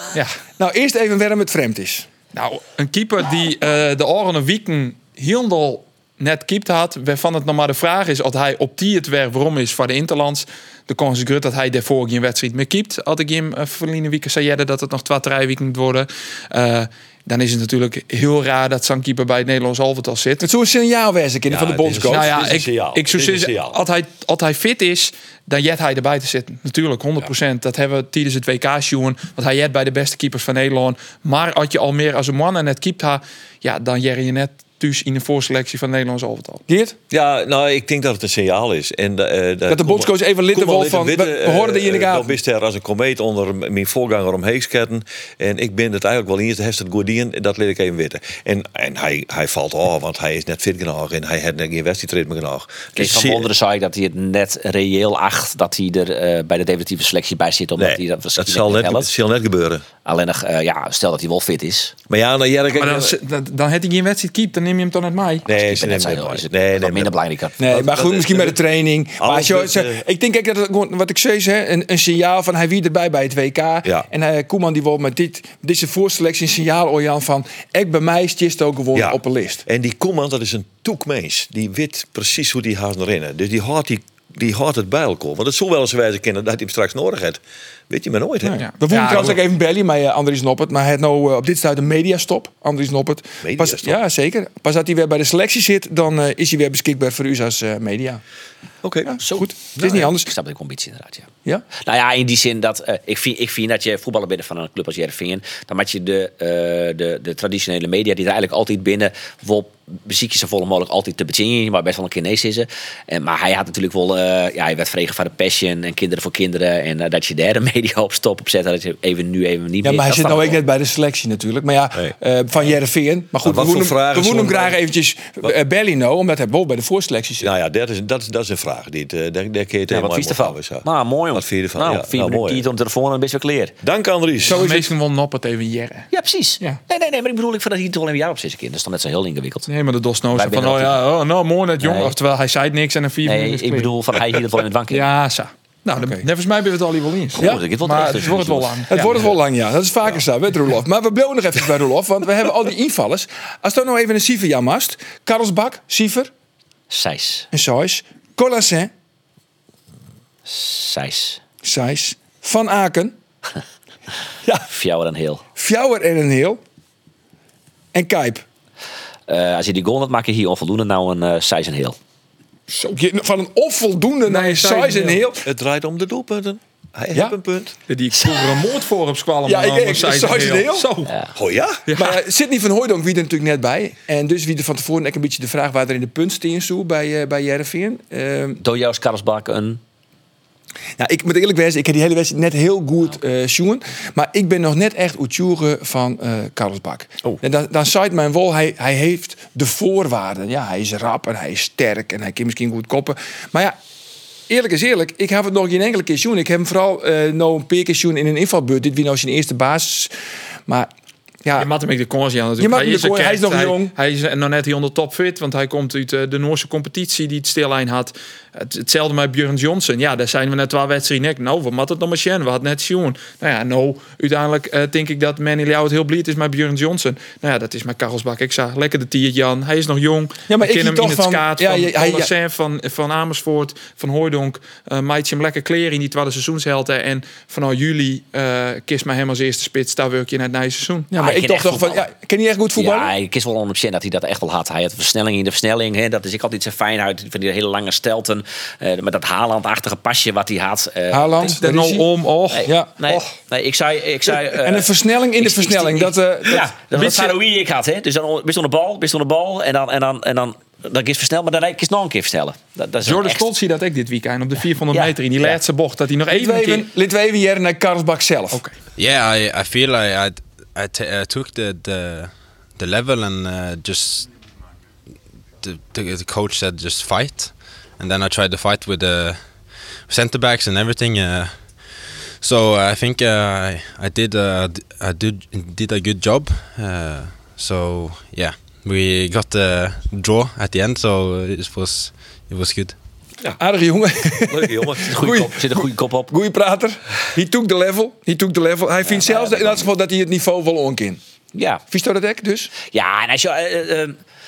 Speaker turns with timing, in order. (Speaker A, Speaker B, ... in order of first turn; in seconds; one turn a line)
Speaker A: 0.6-2.1
Speaker B: 2.3-20.5
Speaker A: 20.4-22.4
Speaker C: 21.5-23.8
Speaker B: 22.0-36.6
Speaker A: 36.7-37.0
Speaker C: 37.1-53.5
Speaker A: 39.7-42.4
Speaker D: 53.0-59.1
Speaker C: 57.8-59.9
Speaker D: 60.0-61.9
Speaker C: 62.1-63.2
Speaker B: 62.7-65.5
Speaker C: 65.5-68.6
Speaker D: 65.5-67.6
Speaker A: 67.6-79.6
Speaker C: 69.2-70.0
Speaker C: 78.9-89.3
Speaker A: 88.4-98.2
Speaker B: 88.6-89.4
Speaker C: 93.4-94.0
Speaker C: 98.8-99.2
Speaker A: 99.1-100.3
Speaker D: 99.2-120.6
Speaker C: 99.8-100.0
Speaker A: 119.8-127.5
Speaker C: 123.4-124.8
Speaker C: 127.4-132.7
Speaker D: 129.9-133.7
Speaker C: 133.8-134.6
Speaker B: 134.4-136.1
Speaker A: 134.5-134.9
Speaker D: 136.1-139.7
Speaker B: 139.7-143.9
Speaker D: 140.3-141.0
Speaker D: 141.8-142.2
Speaker D: 143.2-145.1
Speaker B: 144.9-149.3
Speaker A: 146.0-146.2
Speaker D: 147.4-148.9
Speaker A: 147.4-147.6
Speaker A: 148.9-156.3
Speaker D: 156.9-157.5
Speaker A: 157.5-158.9
Speaker D: 160.5-161.4
Speaker A: 161.6-163.2
Speaker D: 164.7-165.4
Speaker A: 165.6-166.6
Speaker A: 167.9-168.4
Speaker D: 169.3-172.0
Speaker A: 172.9-175.4
Speaker B: 174.3-175.3
Speaker C: 175.4-177.8
Speaker B: 177.9-181.1
Speaker A: 179.5-180.9
Speaker C: 181.4-181.9
Speaker B: 181.9-182.2
Speaker A: 181.9-188.6
Speaker D: 188.6-189.8
Speaker A: 191.0-203.8
Speaker A: 204.5-210.1
Speaker A: 211.4-211.7
Speaker B: 211.6-241.1
Speaker A: 212.6-213.9
Speaker A: 230.5-232.3
Speaker A: 241.1-243.1
Speaker D: 241.2-242.1
Speaker D: 242.8-251.6
Speaker A: 251.1-252.1
Speaker B: 251.6-253.3
Speaker D: 252.5-263.5
Speaker A: 254.5-256.7
Speaker B: 257.0-257.3
Speaker B: 263.0-266.9
Speaker D: 264.9-265.6
Speaker A: 266.3-268.6
Speaker E: 269.0-274.3
Speaker E: 275.6-279.5
Speaker E: 280.1-281.6
Speaker E: 282.4-292.9
Speaker A: 293.6-301.2
Speaker C: 294.5-295.3
Speaker D: 295.0-296.3
Speaker D: 299.0-299.9
Speaker D: 301.5-301.8
Speaker A: 301.9-302.7
Speaker D: 302.9-304.2